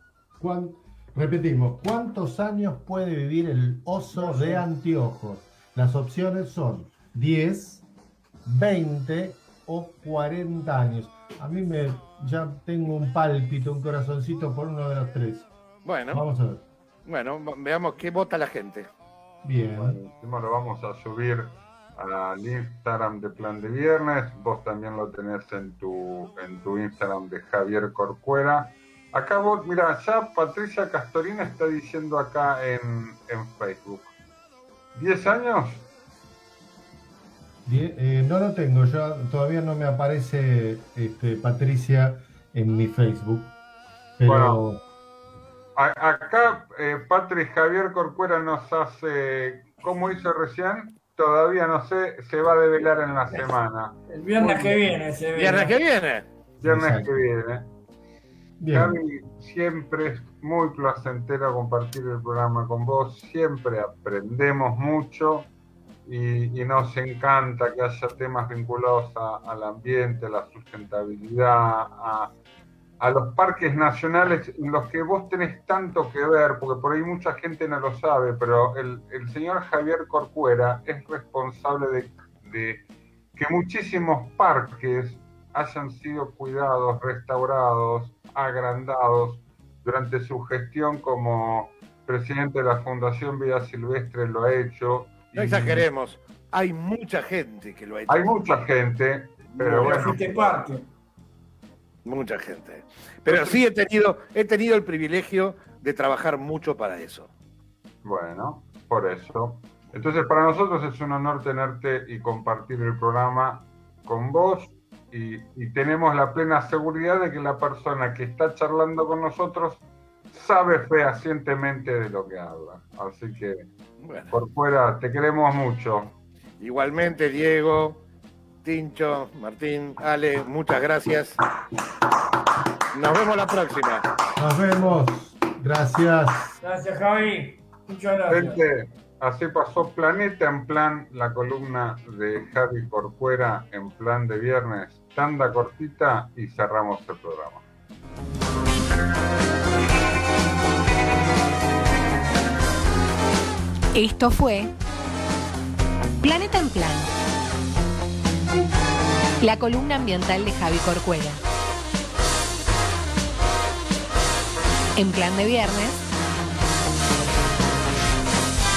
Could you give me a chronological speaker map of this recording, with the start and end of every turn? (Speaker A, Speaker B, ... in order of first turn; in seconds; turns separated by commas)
Speaker A: 0.4-7.8, Speaker B: 4.2-4.6, Speaker A: 8.4-15.5, Speaker C: 15.8-16.2, Speaker A: 16.1-16.6, Speaker C: 17.0-18.9, Speaker A: 19.4-20.0, Speaker D: 19.8-34.1, Speaker D: 34.9-35.9, Speaker A: 37.6-43.5, Speaker A: 44.2-44.8, Speaker D: 44.2-44.6, Speaker D: 45.7-54.0, Speaker B: 54.1-55.8, Speaker C: 55.3-56.3, Speaker D: 56.6-57.7, Speaker A: 56.6-57.2, Speaker A: 58.6-59.0, Speaker D: 58.7-65.5, Speaker D: 66.0-72.3, Speaker D: 73.0-95.8, Speaker C: 95.3-98.6, Speaker D: 98.1-100.5, Speaker B: 99.6-100.9, Speaker C: 99.8-100.2, Speaker C: 102.0-107.3, Speaker D: 108.0-123.7, Speaker C: 124.0-124.3, Speaker D: 124.3-126.2, Speaker C: 126.6-128.0, Speaker C: 128.6-131.4, Speaker C: 132.9-134.1, Speaker A: 134.4-136.6, Speaker B: 136.6-138.6, Speaker D: 138.3-147.6, Speaker E: 153.9-154.7, Speaker E: 156.2-157.1, Speaker E: 159.4-161.4, Speaker E: 164.9-166.0